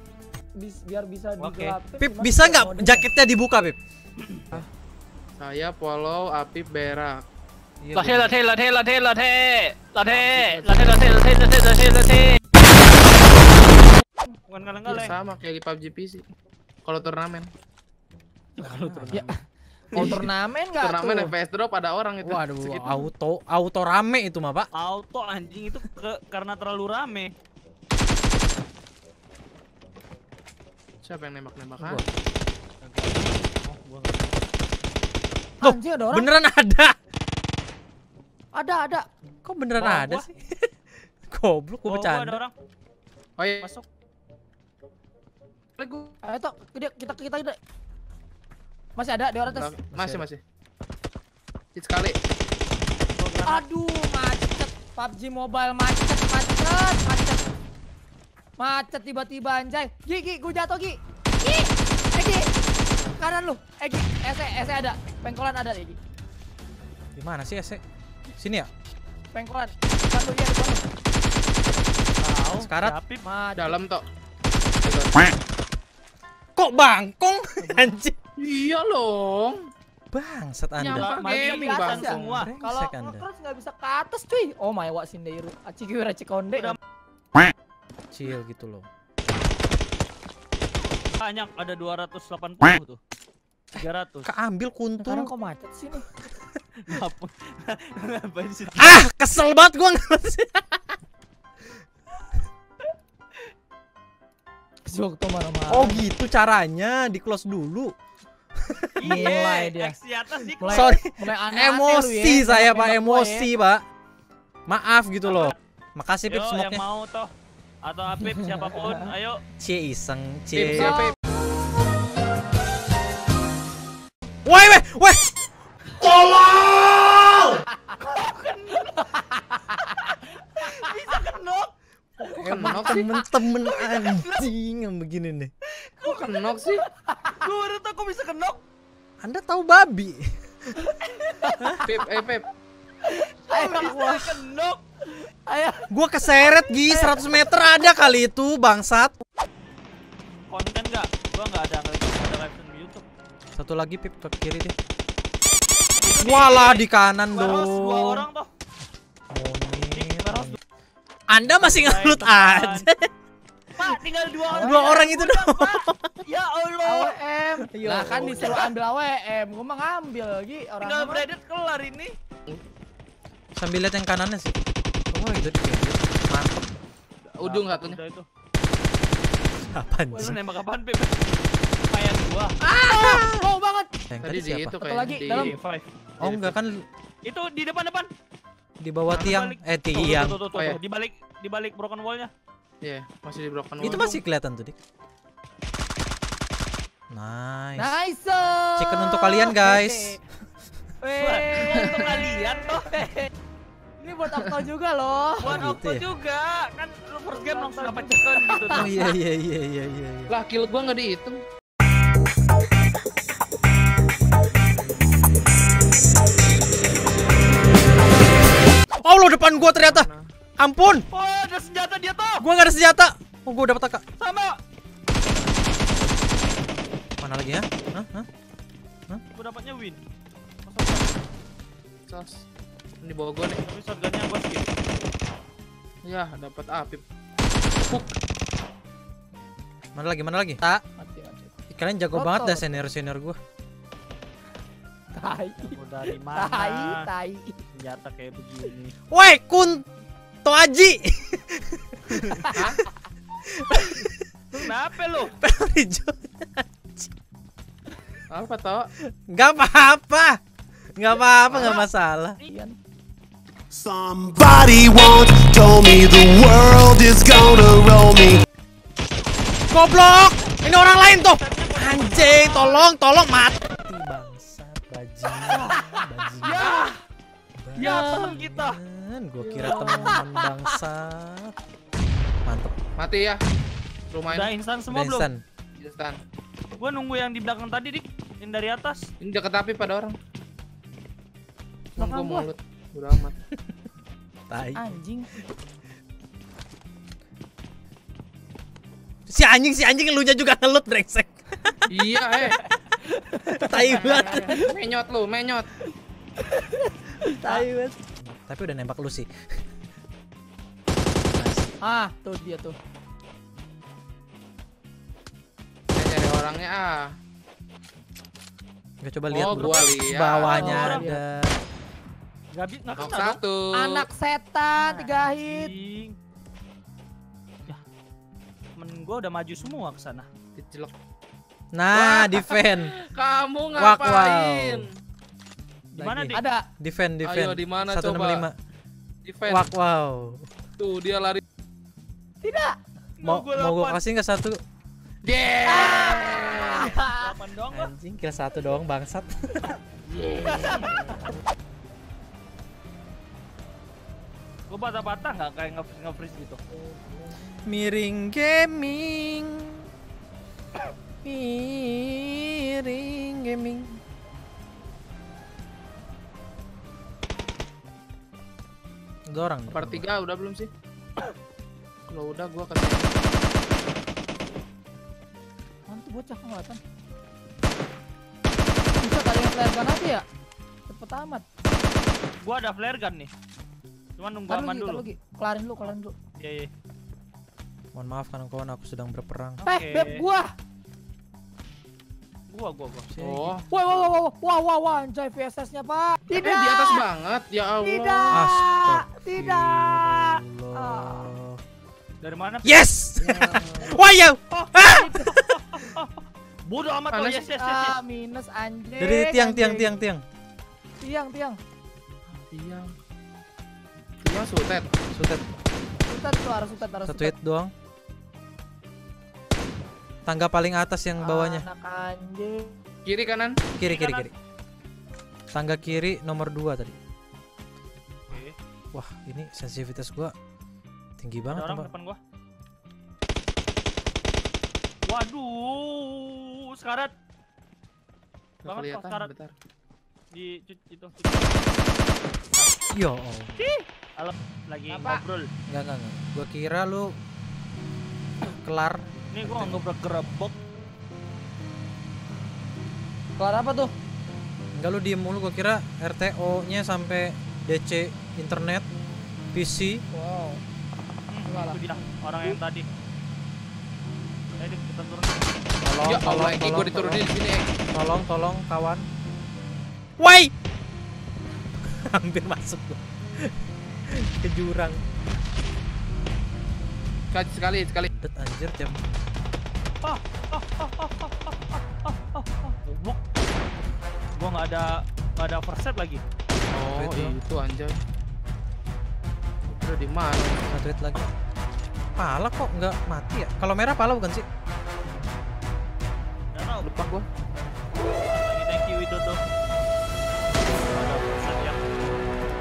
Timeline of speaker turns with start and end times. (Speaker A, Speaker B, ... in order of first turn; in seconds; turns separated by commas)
Speaker A: 0.6-3.1, Speaker B: 1.4-1.8, Speaker C: 1.9-3.8, Speaker D: 5.4-7.2, Speaker C: 7.8-8.3, Speaker D: 8.0-8.3, Speaker B: 8.2-12.3, Speaker A: 10.1-11.1, Speaker B: 14.5-15.2, Speaker D: 14.8-16.2, Speaker D: 16.8-17.5, Speaker A: 18.6-19.3, Speaker C: 18.6-19.3, Speaker B: 18.8-19.3, Speaker A: 19.9-21.3, Speaker C: 19.9-20.2, Speaker D: 20.8-23.1, Speaker C: 22.2-24.7, Speaker B: 24.7-27.3, Speaker D: 31.0-32.0, Speaker C: 31.8-32.0, Speaker B: 32.8-34.3, Speaker A: 35.6-36.3, Speaker C: 35.6-37.0, Speaker A: 38.5-39.0, Speaker C: 39.4-40.7, Speaker B: 39.8-40.3, Speaker C: 41.2-42.4, Speaker B: 41.8-42.5, Speaker D: 43.4-43.7, Speaker B: 43.6-43.8, Speaker D: 45.8-46.1, Speaker A: 46.2-47.6, Speaker A: 49.0-49.7, Speaker D: 49.5-50.4, Speaker C: 49.9-50.2, Speaker D: 51.7-52.3, Speaker B: 53.1-53.6, Speaker A: 53.4-57.4, Speaker A: 58.6-62.4, Speaker A: 63.2-66.0, Speaker C: 67.1-67.8, Speaker C: 68.4-68.7, Speaker A: 69.3-70.8, Speaker B: 72.1-73.2, Speaker C: 72.6-73.0, Speaker A: 73.2-73.8, Speaker D: 73.6-74.0, Speaker D: 74.8-75.3, Speaker C: 76.5-78.2, Speaker A: 77.6-78.0, Speaker D: 78.4-79.6, Speaker C: 80.1-81.2, Speaker D: 80.8-82.4, Speaker B: 80.9-82.5, Speaker A: 81.3-86.8, Speaker C: 82.1-83.3, Speaker C: 88.1-88.9, Speaker B: 91.2-93.0, Speaker B: 93.7-94.3, Speaker C: 93.8-95.3, Speaker A: 95.0-96.0, Speaker B: 96.8-99.0, Speaker C: 98.7-101.0, Speaker A: 104.8-106.0, Speaker C: 105.7-107.9, Speaker C: 108.6-109.4, Speaker B: 109.0-110.9, Speaker A: 109.0-110.0, Speaker A: 110.6-113.5, Speaker C: 110.6-113.8, Speaker C: 114.7-116.8, Speaker B: 115.2-115.6, Speaker B: 116.3-117.3, Speaker B: 117.8-119.4, Speaker C: 119.6-121.0, Speaker D: 120.5-121.2, Speaker A: 120.7-121.1, Speaker C: 124.4-125.2, Speaker C: 126.0-127.6, Speaker B: 128.0-129.4, Speaker B: 130.5-131.7, Speaker C: 132.2-135.5, Speaker D: 132.3-133.1, Speaker B: 133.4-134.5, Speaker B: 136.0-136.3, Speaker D: 136.0-136.8, Speaker A: 136.8-137.4, Speaker B: 137.4-138.6, Speaker C: 139.2-140.8, Speaker A: 140.9-141.9, Speaker C: 141.5-141.8, Speaker D: 141.8-142.5, Speaker A: 143.0-144.3, Speaker B: 143.5-144.8, Speaker A: 145.1-147.5, Speaker C: 145.9-149.1, Speaker B: 150.5-153.0, Speaker C: 153.5-154.7, Speaker B: 156.0-158.5, Speaker C: 156.2-158.2, Speaker C: 159.3-160.6, Speaker B: 159.9-160.6, Speaker C: 161.3-163.1, Speaker B: 161.6-162.9, Speaker B: 163.8-167.2, Speaker C: 164.5-166.1, Speaker A: 164.5-165.1, Speaker A: 166.8-171.2, Speaker C: 167.6-168.7, Speaker B: 168.2-168.6, Speaker B: 170.8-172.1, Speaker C: 173.5-174.5, Speaker C: 175.1-176.7, Speaker D: 177.3-178.0, Speaker B: 177.4-178.2, Speaker C: 179.6-180.4, Speaker B: 180.1-181.3, Speaker B: 181.9-182.6, Speaker C: 182.6-183.4, Speaker A: 182.8-183.9, Speaker C: 184.1-184.7, Speaker D: 184.2-185.5, Speaker A: 184.8-185.6, Speaker B: 185.3-185.8, Speaker D: 186.2-186.6, Speaker C: 186.2-186.8, Speaker B: 187.2-188.1, Speaker C: 188.8-190.4, Speaker B: 189.1-192.3, Speaker D: 190.5-190.8, Speaker D: 192.8-194.2, Speaker C: 193.8-194.8, Speaker C: 197.1-197.9, Speaker A: 197.8-200.2, Speaker C: 198.8-200.2, Speaker A: 201.0-203.3, Speaker B: 201.2-202.9, Speaker A: 204.0-205.6, Speaker B: 205.4-209.1, Speaker C: 205.4-206.1, Speaker A: 207.4-209.0, Speaker C: 208.7-210.3, Speaker D: 210.3-211.4, Speaker C: 219.0-221.0, Speaker D: 219.7-220.2, Speaker B: 221.1-222.4, Speaker C: 222.4-224.0, Speaker B: 224.2-224.6, Speaker C: 227.2-228.3, Speaker B: 229.3-230.0, Speaker B: 230.7-231.1, Speaker D: 232.1-232.4, Speaker D: 233.0-233.6, Speaker B: 233.6-234.7, Speaker D: 236.0-237.0, Speaker D: 237.8-238.1, Speaker C: 239.9-240.8, Speaker A: 241.0-241.5, Speaker C: 241.7-243.4, Speaker A: 242.1-242.8, Speaker A: 245.1-245.8, Speaker B: 245.6-247.1, Speaker A: 246.3-247.6, Speaker B: 247.7-248.9, Speaker C: 249.1-249.8, Speaker C: 250.4-252.7, Speaker D: 252.5-252.8, Speaker C: 253.4-254.2, Speaker B: 254.5-255.3, Speaker C: 255.2-257.1, Speaker D: 258.3-258.9, Speaker C: 259.0-260.4, Speaker C: 260.9-262.4, Speaker B: 261.5-261.9, Speaker A: 262.5-262.8, Speaker E: 263.7-268.4, Speaker C: 269.7-276.7, Speaker B: 271.2-272.9, Speaker B: 275.5-275.9, Speaker B: 276.4-277.0, Speaker C: 277.6-281.5, Speaker B: 277.8-278.8, Speaker D: 279.6-279.9, Speaker A: 279.6-280.8, Speaker C: 282.4-282.7, Speaker D: 283.0-283.4, Speaker D: 284.1-284.5, Speaker B: 284.3-285.3, Speaker C: 284.9-285.4, Speaker D: 285.8-286.2, Speaker B: 286.8-289.1, Speaker D: 289.2-290.2, Speaker D: 291.9-293.3, Speaker A: 292.0-292.5, Speaker C: 294.5-294.9, Speaker A: 294.7-295.3, Speaker C: 299.3-301.6, Speaker D: 301.9-302.6, Speaker A: 302.4-304.6, Speaker C: 303.5-304.6, Speaker D: 304.0-305.7, Speaker A: 307.2-307.7, Speaker C: 307.4-309.3, Speaker C: 311.3-311.7, Speaker A: 311.8-312.8, Speaker D: 315.9-317.1, Speaker C: 319.0-321.6, Speaker D: 319.3-320.7, Speaker B: 319.5-319.8, Speaker B: 320.4-321.1, Speaker A: 320.4-321.2, Speaker B: 322.5-323.4, Speaker D: 322.9-324.1, Speaker A: 323.7-325.7, Speaker B: 324.8-326.1, Speaker B: 328.8-330.3, Speaker D: 330.6-330.9, Speaker C: 331.7-332.9, Speaker D: 331.9-335.0, Speaker C: 333.8-334.9, Speaker B: 335.9-336.4, Speaker C: 335.9-338.5, Speaker A: 336.3-336.6, Speaker D: 337.2-338.4, Speaker D: 339.2-339.7, Speaker C: 339.4-340.5, Speaker D: 340.8-341.4, Speaker A: 342.4-342.8, Speaker B: 343.2-344.0, Speaker C: 343.2-344.6, Speaker D: 345.2-346.9, Speaker A: 345.6-347.3, Speaker B: 346.9-347.9, Speaker C: 347.7-349.7, Speaker A: 350.1-351.3, Speaker B: 350.5-351.3, Speaker B: 354.7-356.6, Speaker C: 357.6-359.9, Speaker C: 361.2-364.0, Speaker C: 369.3-370.0, Speaker D: 369.7-370.7, Speaker D: 372.1-373.1, Speaker A: 375.9-376.8, Speaker A: 379.0-380.2, Speaker A: 380.9-381.4, Speaker B: 382.4-383.3, Speaker B: 384.2-385.0, Speaker A: 384.5-386.1, Speaker B: 386.4-386.7, Speaker C: 387.9-389.6, Speaker B: 389.6-390.2, Speaker A: 389.6-390.5, Speaker B: 392.5-393.1, Speaker C: 393.1-393.6, Speaker D: 393.2-393.6, Speaker A: 393.7-397.0, Speaker D: 396.3-398.4, Speaker A: 397.8-401.3, Speaker C: 398.3-401.6, Speaker B: 402.2-402.8, Speaker C: 402.6-405.6, Speaker D: 403.2-404.0, Speaker A: 404.8-405.2, Speaker B: 405.3-407.9, Speaker D: 407.1-407.4, Speaker A: 407.6-410.0, Speaker C: 409.0-410.2, Speaker A: 411.0-411.6, Speaker D: 412.3-412.9, Speaker D: 414.2-414.9, Speaker C: 415.1-415.4, Speaker A: 416.0-417.3, Speaker C: 417.0-417.7, Speaker C: 420.2-421.7, Speaker A: 421.2-422.8, Speaker D: 423.0-423.6, Speaker C: 423.8-424.3, Speaker B: 423.8-424.3, Speaker C: 425.5-426.9, Speaker B: 428.3-428.6, Speaker C: 428.9-430.3, Speaker C: 431.2-431.9, Speaker B: 431.5-432.2, Speaker B: 435.1-437.1, Speaker D: 438.6-439.5, Speaker B: 438.6-439.3, Speaker B: 440.3-441.6, Speaker C: 442.9-443.6, Speaker B: 444.2-445.5, Speaker A: 444.9-445.2, Speaker C: 445.7-447.1, Speaker C: 448.5-449.8, Speaker B: 449.3-450.6, Speaker A: 453.4-453.9, Speaker C: 454.8-458.9, Speaker C: 459.5-460.0, Speaker A: 460.1-460.6, Speaker B: 461.3-462.9, Speaker A: 461.4-461.8, Speaker B: 464.6-465.5, Speaker C: 465.8-467.3, Speaker D: 466.1-467.7, Speaker C: 467.9-469.1, Speaker C: 470.2-470.5, Speaker C: 471.8-473.5, Speaker C: 474.1-475.0, Speaker D: 477.3-478.1, Speaker C: 478.1-479.0, Speaker B: 480.0-483.2, Speaker B: 484.4-486.2, Speaker D: 486.7-488.0, Speaker C: 486.9-487.4, Speaker D: 489.7-490.6, Speaker C: 490.7-491.3, Speaker C: 492.1-494.4, Speaker B: 496.5-496.9, Speaker D: 496.8-497.2, Speaker B: 498.2-499.4, Speaker B: 500.9-501.9